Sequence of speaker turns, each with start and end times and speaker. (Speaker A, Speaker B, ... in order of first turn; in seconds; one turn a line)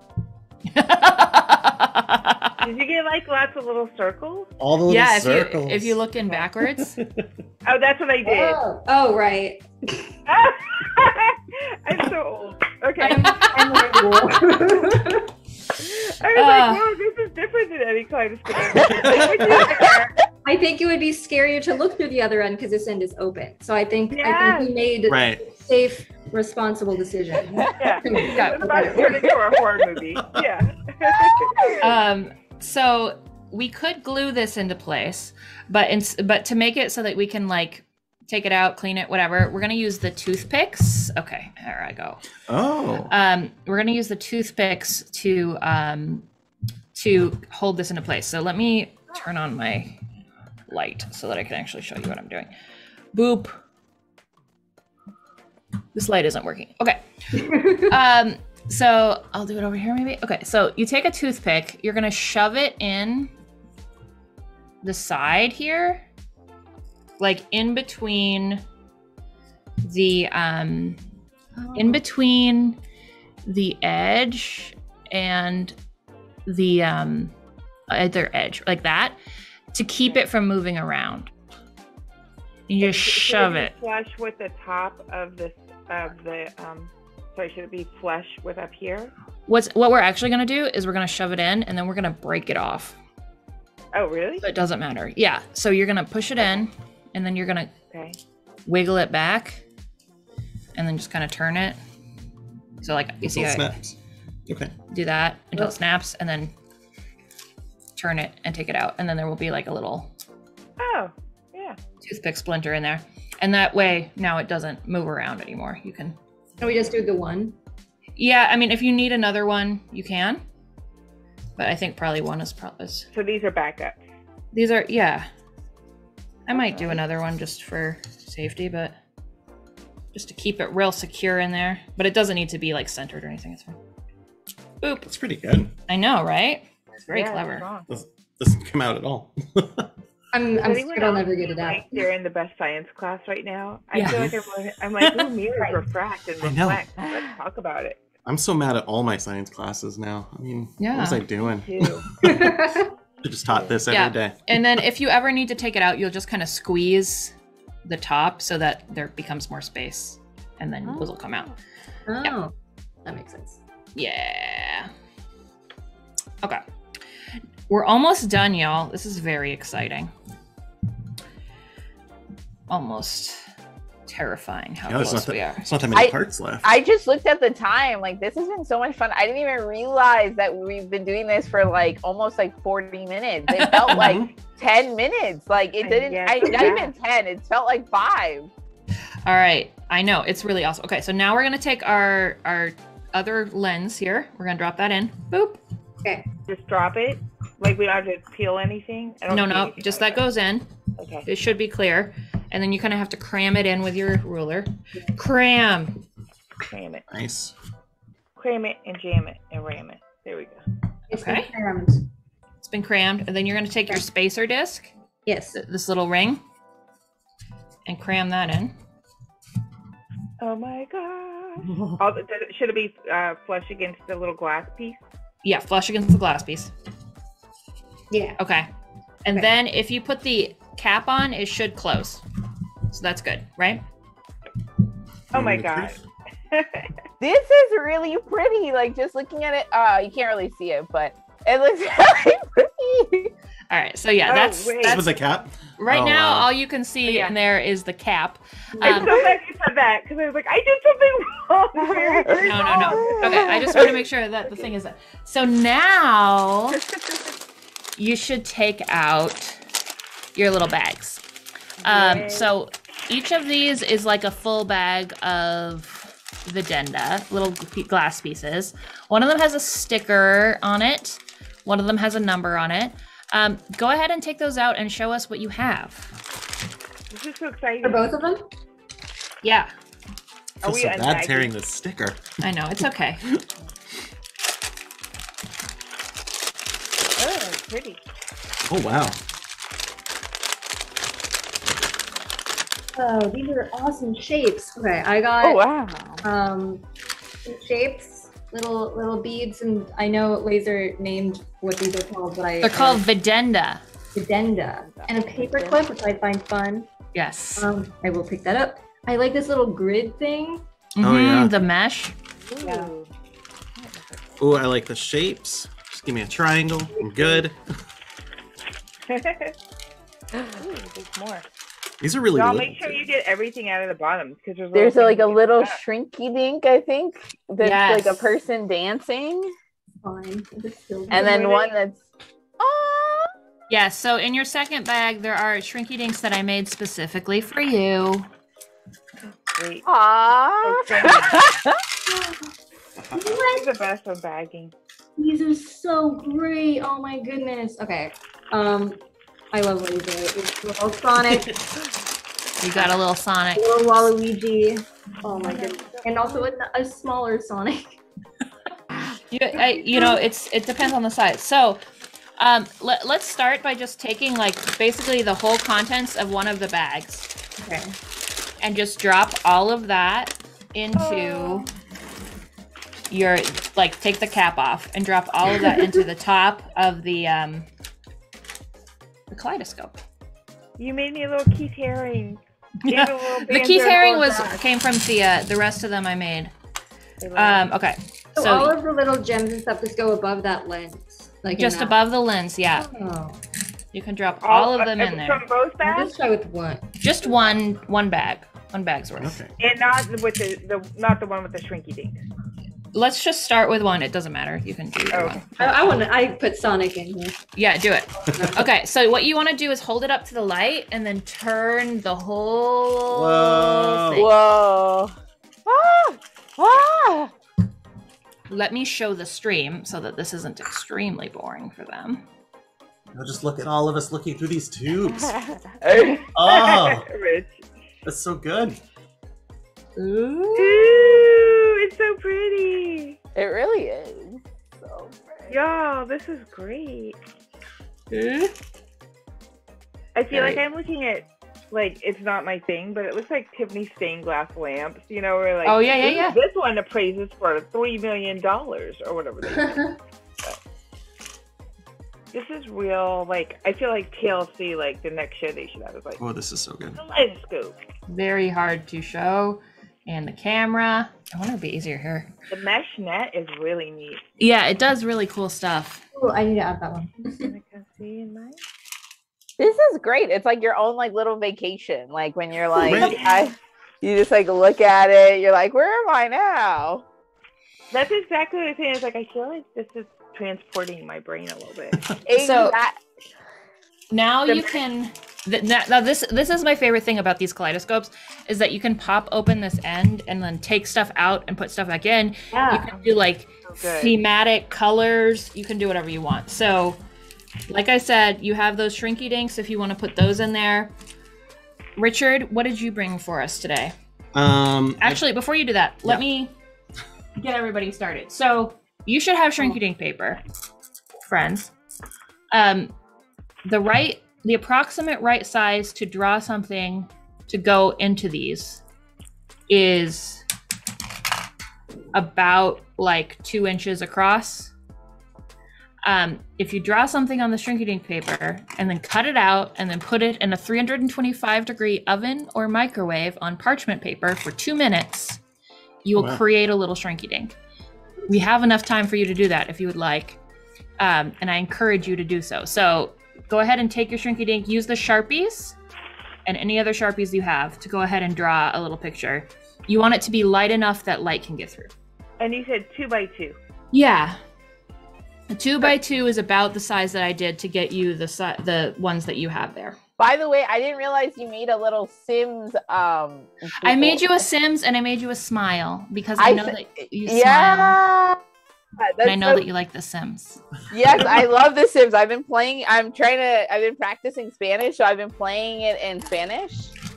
Speaker A: 0.7-2.6
Speaker B: 2.6-4.5
Speaker C: 4.6-6.0
Speaker A: 4.9-7.0
Speaker C: 6.8-7.3
Speaker B: 7.6-8.6
Speaker D: 8.2-10.1
Speaker B: 10.2-14.3
Speaker D: 13.0-15.3
Speaker B: 15.8-20.2
Speaker A: 16.3-16.9
Speaker E: 18.7-19.3
Speaker C: 18.8-19.7
Speaker D: 20.4-29.3
Speaker B: 24.1-24.7
Speaker C: 25.1-25.4
Speaker B: 27.8-31.7
Speaker A: 28.2-29.0
Speaker E: 29.0-29.4
Speaker E: 31.3-31.9
Speaker A: 31.8-42.2
Speaker C: 42.5-43.1
Speaker A: 43.1-46.2
Speaker A: 46.9-50.0
Speaker A: 50.7-52.5
Speaker A: 53.1-53.6
Speaker A: 55.9-63.3
Speaker D: 57.3-57.9
Speaker A: 64.8-66.0
Speaker A: 67.2-68.6
Speaker A: 69.8-71.0
Speaker D: 71.6-72.0
Speaker A: 71.7-72.8
Speaker A: 73.4-75.8
Speaker A: 76.5-77.3
Speaker A: 77.9-79.2
Speaker A: 79.7-81.3
Speaker A: 82.7-83.7
Speaker B: 82.8-89.1
Speaker A: 89.5-93.0
Speaker B: 93.9-94.5
Speaker A: 94.4-97.7
Speaker B: 97.9-98.2
Speaker A: 98.7-99.6
Speaker A: 100.8-101.8
Speaker A: 102.8-103.8
Speaker C: 103.2-103.9
Speaker C: 104.5-104.8
Speaker A: 104.9-106.5
Speaker A: 108.0-110.1
Speaker B: 110.8-111.8
Speaker A: 112.0-116.2
Speaker D: 116.6-117.5
Speaker A: 118.2-120.4
Speaker A: 121.6-123.1
Speaker B: 123.1-124.0
Speaker A: 124.5-125.3
Speaker A: 126.5-128.9
Speaker A: 130.1-133.8
Speaker A: 134.8-135.1
Speaker C: 135.0-135.7
Speaker A: 135.9-137.7
Speaker B: 137.1-138.0
Speaker C: 137.9-139.9
Speaker D: 140.3-142.1
Speaker B: 140.5-148.0
Speaker A: 143.9-144.3
Speaker C: 144.0-144.4
Speaker C: 145.0-145.3
Speaker C: 146.4-146.8
Speaker C: 148.2-152.5
Speaker A: 150.8-151.2
Speaker B: 151.7-152.1
Speaker D: 152.2-152.9
Speaker C: 153.2-154.4
Speaker A: 153.9-157.3
Speaker A: 157.8-161.5
Speaker D: 162.1-162.5
Speaker D: 163.0-163.6
Speaker A: 163.9-164.9
Speaker A: 167.7-170.1
Speaker A: 172.7-173.4
Speaker A: 174.1-175.6
Speaker C: 174.9-176.7
Speaker E: 175.9-188.5
Speaker A: 183.5-184.1
Speaker C: 183.9-184.3
Speaker B: 185.8-186.9
Speaker A: 189.2-195.6
Speaker B: 196.5-200.2
Speaker A: 199.3-200.7
Speaker B: 201.0-201.3
Speaker A: 201.2-206.0
Speaker B: 206.7-207.1
Speaker C: 207.1-207.5
Speaker B: 208.3-210.6
Speaker D: 211.1-212.1
Speaker A: 211.1-211.5
Speaker A: 212.6-214.9
Speaker D: 215.2-215.6
Speaker A: 215.5-216.4
Speaker A: 217.8-218.7
Speaker B: 220.4-225.0
Speaker A: 225.4-226.7
Speaker D: 228.1-228.4
Speaker A: 228.4-228.7
Speaker A: 229.2-232.2
Speaker A: 232.9-233.8
Speaker C: 235.3-236.0
Speaker B: 235.3-236.9
Speaker E: 237.2-243.3
Speaker A: 243.7-245.0
Speaker B: 244.3-245.1
Speaker C: 244.8-246.5
Speaker A: 245.8-249.1
Speaker D: 248.8-249.2
Speaker B: 248.8-254.0
Speaker E: 251.8-253.8
Speaker A: 252.3-256.8
Speaker A: 258.0-259.6
Speaker A: 260.3-261.2
Speaker B: 261.8-262.5
Speaker A: 261.8-276.1
Speaker B: 277.1-278.1
Speaker D: 277.8-278.5
Speaker A: 279.4-279.7
Speaker B: 280.6-281.5
Speaker C: 280.6-282.4
Speaker A: 282.4-283.2
Speaker B: 287.2-288.0
Speaker C: 288.7-289.2
Speaker D: 292.9-295.6
Speaker E: 295.4-296.2
Speaker D: 296.2-296.8
Speaker D: 297.4-303.0
Speaker A: 302.6-303.8
Speaker D: 304.1-306.9
Speaker B: 304.9-305.9
Speaker A: 307.1-307.7
Speaker D: 307.6-310.6
Speaker A: 311.0-312.1
Speaker C: 311.0-311.6
Speaker B: 312.5-313.1
Speaker D: 312.6-312.9
Speaker B: 313.8-314.2
Speaker C: 314.4-317.6
Speaker D: 317.0-317.4
Speaker B: 319.1-319.5
Speaker B: 320.4-321.4
Speaker C: 322.0-323.1
Speaker B: 322.3-325.8
Speaker E: 324.7-329.5
Speaker A: 327.6-328.4
Speaker D: 330.0-331.4
Speaker B: 331.1-331.8
Speaker E: 331.1-332.0
Speaker E: 332.6-333.3
Speaker A: 333.7-338.3
Speaker B: 339.2-339.9
Speaker E: 339.8-341.8
Speaker B: 340.6-341.5
Speaker D: 343.1-343.7
Speaker B: 343.2-344.7
Speaker D: 345.2-349.0
Speaker D: 349.5-351.6
Speaker A: 352.6-354.1
Speaker D: 353.6-358.0
Speaker B: 355.4-356.5
Speaker A: 359.3-361.8
Speaker A: 362.4-367.3
Speaker D: 367.6-367.9
Speaker A: 368.6-371.7
Speaker B: 370.9-371.7
Speaker A: 373.1-377.7
Speaker A: 379.3-380.0
Speaker B: 380.8-384.6
Speaker A: 382.8-386.5
Speaker B: 387.2-387.7
Speaker A: 387.3-388.8
Speaker D: 388.4-392.0
Speaker A: 391.6-392.9
Speaker D: 392.8-393.4
Speaker A: 393.9-395.4
Speaker B: 394.4-396.1
Speaker D: 395.8-396.9
Speaker A: 397.0-399.4
Speaker C: 399.2-399.5
Speaker B: 399.6-402.2
Speaker A: 402.9-405.9
Speaker B: 405.1-405.5
Speaker D: 405.5-407.4
Speaker A: 407.6-414.3
Speaker C: 413.1-414.3
Speaker E: 414.1-415.1
Speaker E: 415.6-417.3
Speaker A: 418.5-422.2
Speaker C: 423.1-425.4
Speaker E: 425.8-426.2
Speaker B: 425.9-427.6
Speaker C: 426.3-427.1
Speaker C: 428.0-428.8
Speaker A: 430.0-431.1
Speaker B: 430.6-433.2
Speaker E: 433.3-435.5
Speaker B: 435.5-437.2
Speaker A: 438.1-438.5
Speaker B: 440.1-450.6
Speaker A: 440.3-440.6
Speaker A: 445.6-446.4
Speaker D: 449.6-449.8
Speaker B: 452.3-456.2
Speaker C: 456.2-457.0
Speaker B: 457.0-457.8
Speaker A: 458.1-462.3
Speaker B: 462.5-464.2
Speaker A: 464.4-466.0
Speaker D: 466.1-467.5
Speaker B: 467.3-468.6
Speaker E: 469.6-477.0
Speaker C: 472.8-473.2
Speaker B: 472.9-473.5
Speaker B: 477.9-482.0
Speaker E: 482.2-483.0
Speaker A: 482.3-482.7
Speaker A: 484.1-497.0
Speaker D: 492.5-492.9
Speaker B: 493.6-494.1
Speaker A: 497.7-500.9
Speaker A: 501.9-503.9
Speaker C: 504.3-505.2
Speaker A: 505.0-506.5
Speaker A: 507.4-510.4
Speaker A: 511.2-511.7
Speaker A: 512.5-512.9
Speaker A: 513.6-518.8
Speaker A: 519.7-520.4
Speaker A: 522.1-524.7
Speaker A: 526.0-535.4
Speaker A: 536.0-537.5
Speaker C: 536.1-536.4
Speaker A: 538.3-540.4
Speaker A: 541.0-545.8
Speaker A: 546.5-551.9
Speaker B: 552.4-553.6
Speaker A: 553.9-554.4
Speaker A: 555.5-560.0
Speaker E: 560.2-564.4
Speaker A: 563.8-568.0
Speaker E: 566.4-568.4
Speaker E: 569.0-569.6
Speaker A: 569.2-570.6
Speaker E: 570.9-576.9